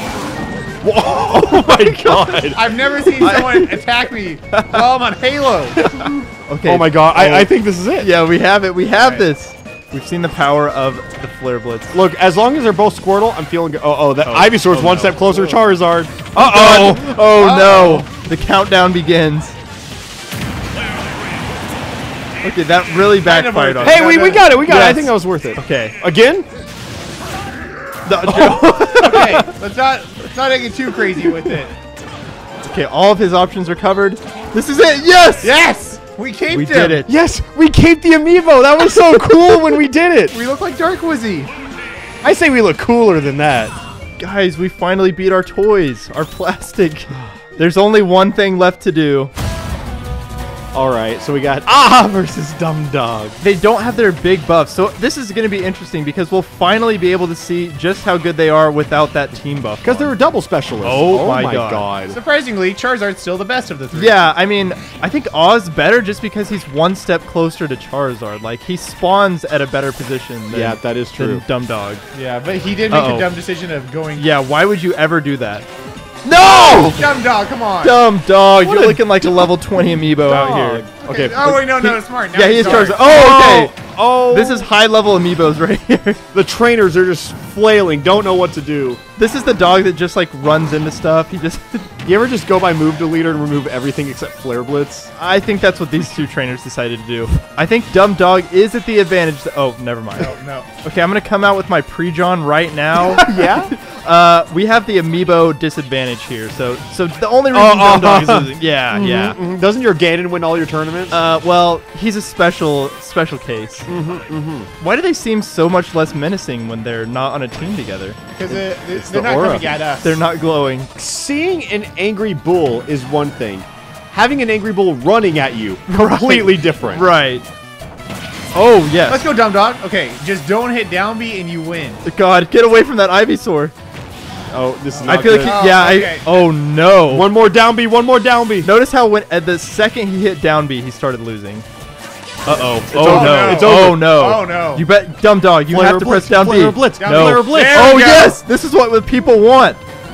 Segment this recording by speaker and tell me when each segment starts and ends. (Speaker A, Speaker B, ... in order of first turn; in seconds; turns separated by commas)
Speaker A: 0.8-2.6, Speaker B: 1.5-2.4, Speaker C: 2.5-5.9, Speaker B: 3.2-3.7, Speaker B: 4.5-5.0, Speaker B: 5.8-12.0, Speaker A: 6.6-8.1, Speaker C: 8.9-9.2, Speaker A: 11.9-17.1, Speaker B: 14.2-15.6, Speaker B: 16.3-19.6, Speaker C: 17.3-18.1, Speaker B: 22.4-26.0, Speaker C: 23.2-24.6, Speaker A: 23.8-26.5, Speaker B: 28.1-29.5, Speaker A: 28.2-28.6, Speaker C: 29.0-31.7, Speaker B: 32.6-35.5, Speaker C: 35.4-37.0, Speaker B: 36.5-37.1, Speaker A: 37.0-40.3, Speaker C: 40.3-41.5, Speaker A: 42.2-43.7, Speaker B: 44.2-49.3, Speaker A: 50.7-53.4, Speaker B: 53.4-60.1, Speaker A: 59.8-62.2, Speaker B: 60.8-61.9, Speaker C: 62.0-64.2, Speaker B: 63.9-72.0, Speaker A: 70.5-71.4, Speaker C: 72.1-74.3, Speaker B: 72.9-73.3, Speaker B: 74.2-75.7, Speaker B: 76.2-77.0, Speaker C: 76.9-78.0, Speaker B: 77.8-80.9, Speaker A: 78.7-79.0, Speaker A: 80.2-81.7, Speaker C: 80.9-83.0, Speaker B: 81.8-86.2, Speaker A: 83.0-84.7, Speaker A: 86.3-89.0, Speaker B: 89.2-91.9, Speaker A: 92.0-95.1, Speaker B: 95.2-109.4, Speaker C: 100.2-100.8, Speaker A: 103.2-103.7, Speaker A: 107.5-111.2, Speaker B: 111.1-113.9, Speaker A: 113.9-114.7, Speaker B: 114.8-118.2, Speaker C: 118.3-120.2, Speaker A: 118.5-119.6, Speaker B: 120.0-120.9, Speaker A: 121.0-127.1, Speaker B: 125.9-127.4, Speaker B: 128.5-129.3, Speaker C: 129.1-132.0, Speaker B: 132.0-133.7, Speaker A: 134.5-135.6, Speaker C: 134.9-136.3, Speaker B: 135.0-137.3, Speaker A: 137.1-138.7, Speaker B: 138.6-141.6, Speaker B: 142.4-149.8, Speaker A: 142.5-144.1, Speaker C: 142.9-144.8, Speaker A: 145.7-148.0, Speaker C: 146.9-148.4